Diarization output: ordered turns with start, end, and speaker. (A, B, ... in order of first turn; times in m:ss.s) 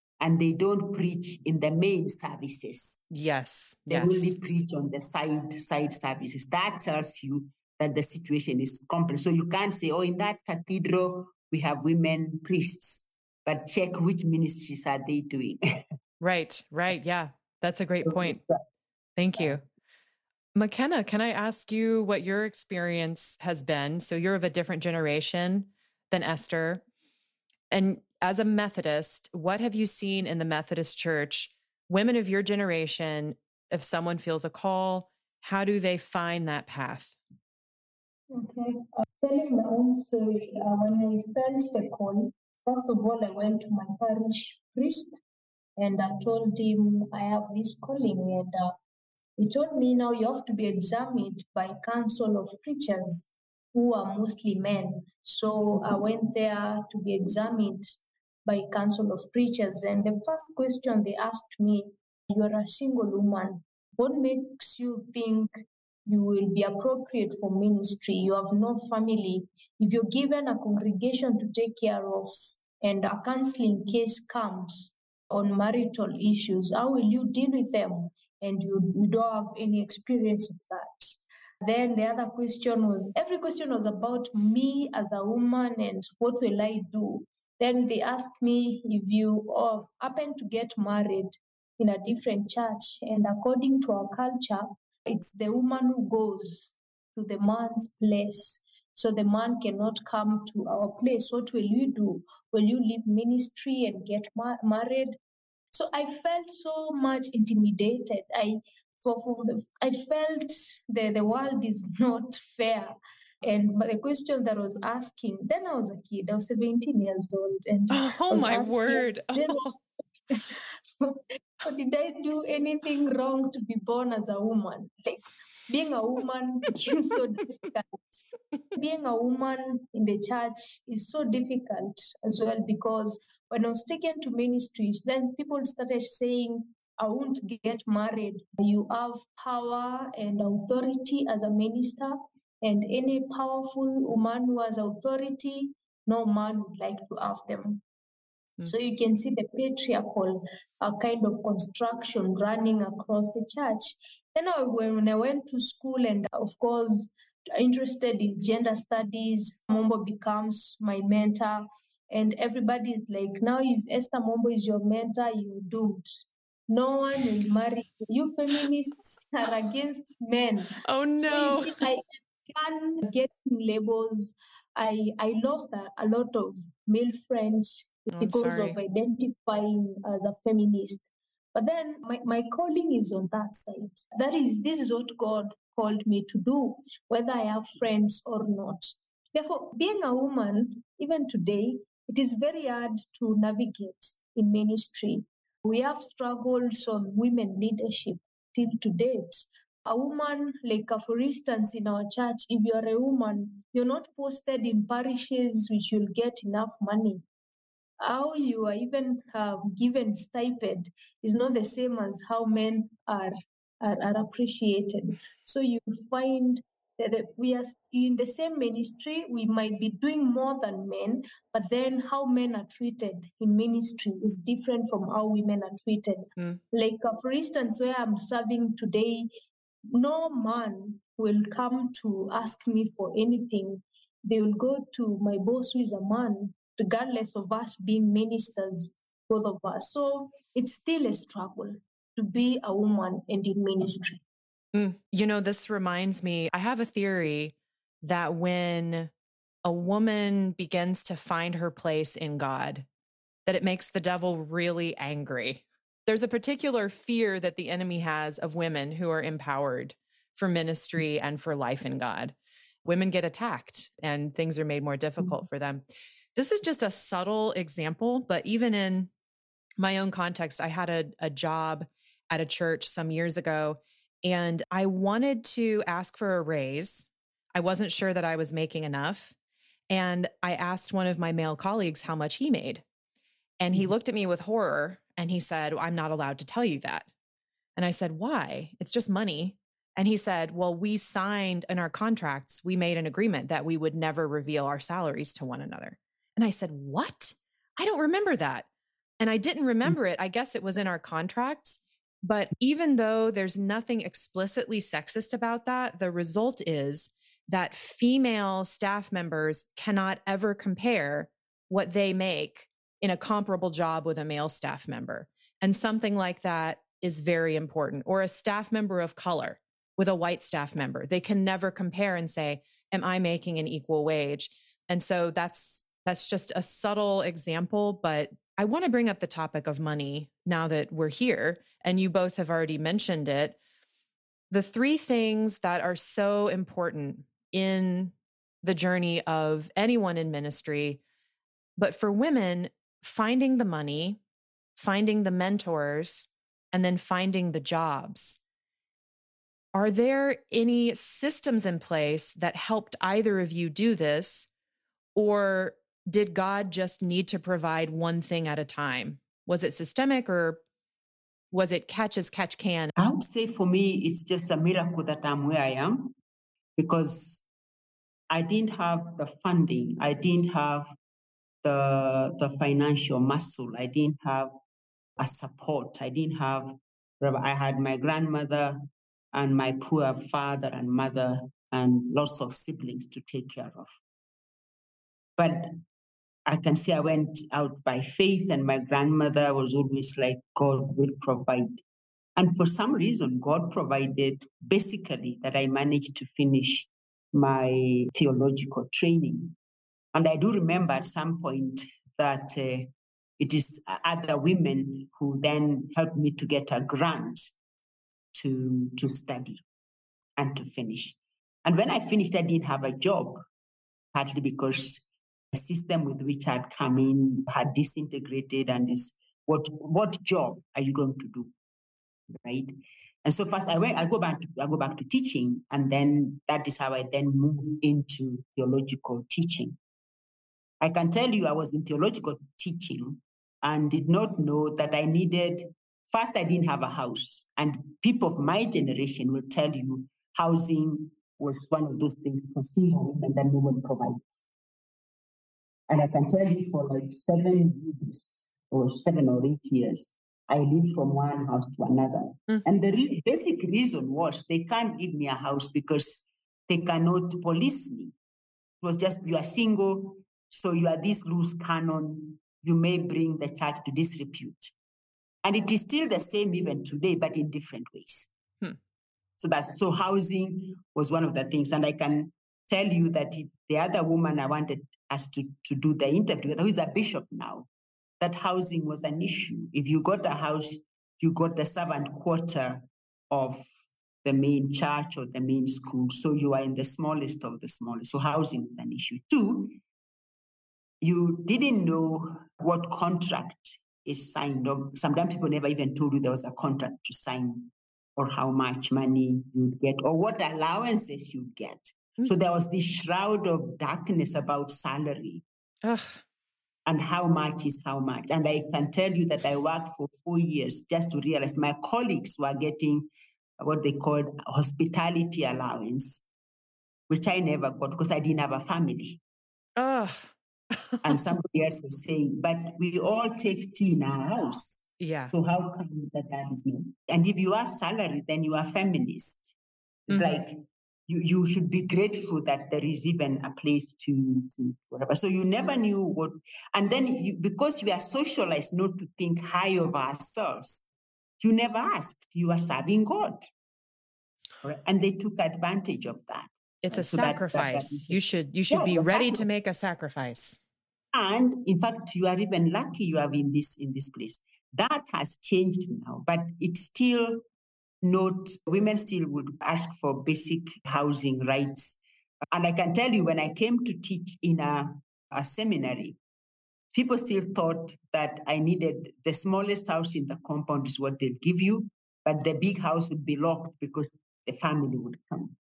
0:00.2-0:03.0 A
0:03.1-0:04.4 B
0:03.9-0:15.8 A
0:16.2-0:18.4 B
0:18.0-0:18.6 A
0:19.2-0:19.6 B
0:20.5-0:26.8 B
0:27.7-0:37.2 B
0:38.3-0:45.2 C
0:45.8-0:48.7 C
0:49.4-1:45.2 C
1:45.7-1:59.8 C
1:57.9-1:59.8 B
2:00.3-2:27.8 C
2:28.6-3:27.2 C
2:50.8-2:51.8 B
2:58.1-2:58.8 B
3:28.0-3:49.3 C
3:49.9-4:04.2 C
4:04.7-4:09.1 B
4:09.6-4:12.8 B
4:13.4-4:25.8 B
4:26.4-4:29.1 B
4:29.8-4:39.3 B
4:39.9-4:42.8 B
4:43.6-4:47.1 B
4:47.8-4:58.7 B
4:59.2-5:33.6 B
5:34.5-5:41.0 B
5:41.8-5:44.2 B
5:44.8-5:48.4 B
5:49.7-5:54.5 B
5:55.1-6:00.6 B
6:01.5-6:02.9 B
6:03.0-6:06.2 A
6:06.8-6:07.4 A
6:08.3-6:10.9 A
6:11.6-6:14.5 A
6:15.2-6:24.0 A
6:25.4-6:25.8 A
6:26.4-6:31.8 A
6:32.4-6:39.6 A
6:40.1-6:47.5 A
6:48.3-6:49.6 A
6:50.4-6:53.4 A
6:54.1-7:01.5 A
7:02.3-7:09.8 A
7:10.8-7:24.4 A
7:25.9-7:38.1 A
7:38.8-7:44.7 A
7:45.4-7:48.3 A
7:49.4-7:57.7 A
7:58.2-8:03.6 A
8:04.2-8:09.8 A
8:11.0-8:25.4 A
8:25.8-8:26.2 B
8:26.8-8:33.1 A
8:33.6-8:36.2 A
8:37.1-8:39.2 A
8:39.8-8:41.2 B
8:41.0-8:49.6 A
8:45.0-8:45.3 B
8:50.1-9:00.8 A
8:50.1-8:50.4 B
9:01.4-9:03.5 A
9:04.6-9:08.2 A
9:06.8-9:10.6 B
9:08.7-9:09.4 A
9:11.1-9:17.4 A
9:18.0-9:22.0 A
9:22.5-9:26.2 A
9:26.9-9:35.6 A